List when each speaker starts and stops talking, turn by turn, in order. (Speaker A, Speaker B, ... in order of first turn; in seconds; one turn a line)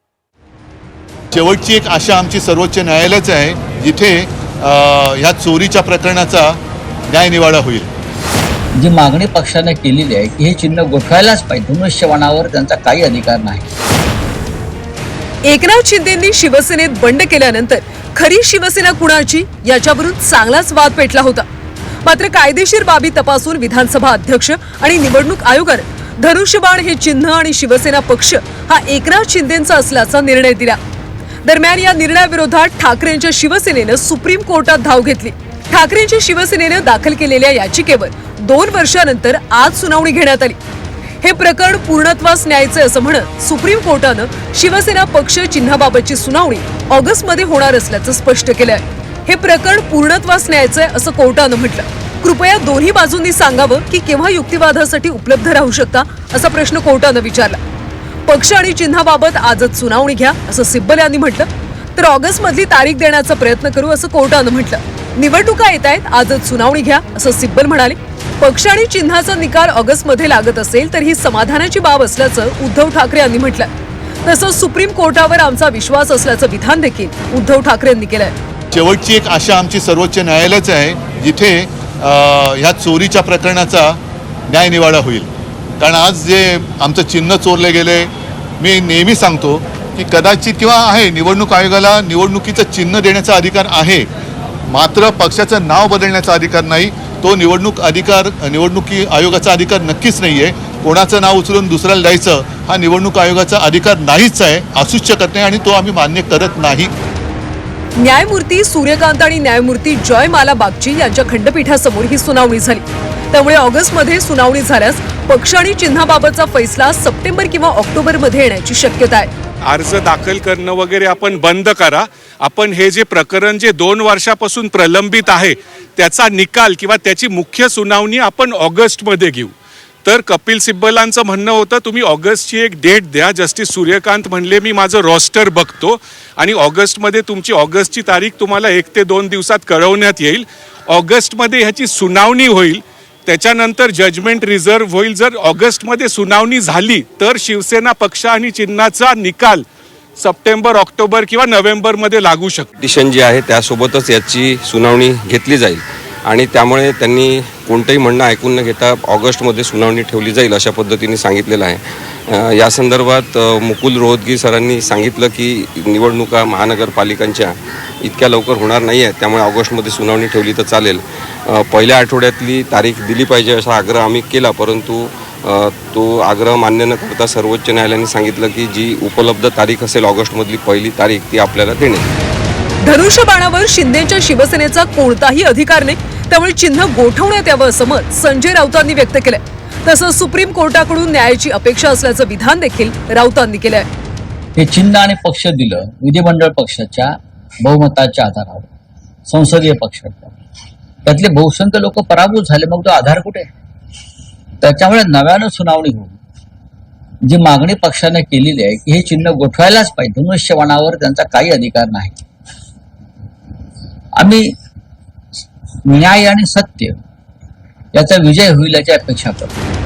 Speaker A: 1.3-7.9
Speaker B: 8.8-13.6
Speaker C: 15.4-21.4
Speaker C: 22.0-30.8
Speaker C: 31.4-40.6
Speaker C: 41.2-57.6
Speaker C: 58.3-73.7
Speaker C: 74.2-78.3
Speaker A: 78.7-85.3
Speaker A: 85.8-94.1
Speaker A: 94.7-106.9
Speaker C: 108.0-119.3
Speaker D: 119.7-129.5
Speaker D: 130.0-149.6
Speaker D: 150.2-152.7
Speaker E: 152.8-182.1
Speaker C: 182.8-193.8
Speaker B: 194.6-198.7
Speaker B: 199.3-200.3
Speaker B: 201.0-203.5
Speaker B: 204.6-206.2
Speaker B: 207.2-212.2
Speaker B: 214.2-214.5
Speaker B: 215.8-217.0
Speaker B: 217.9-219.5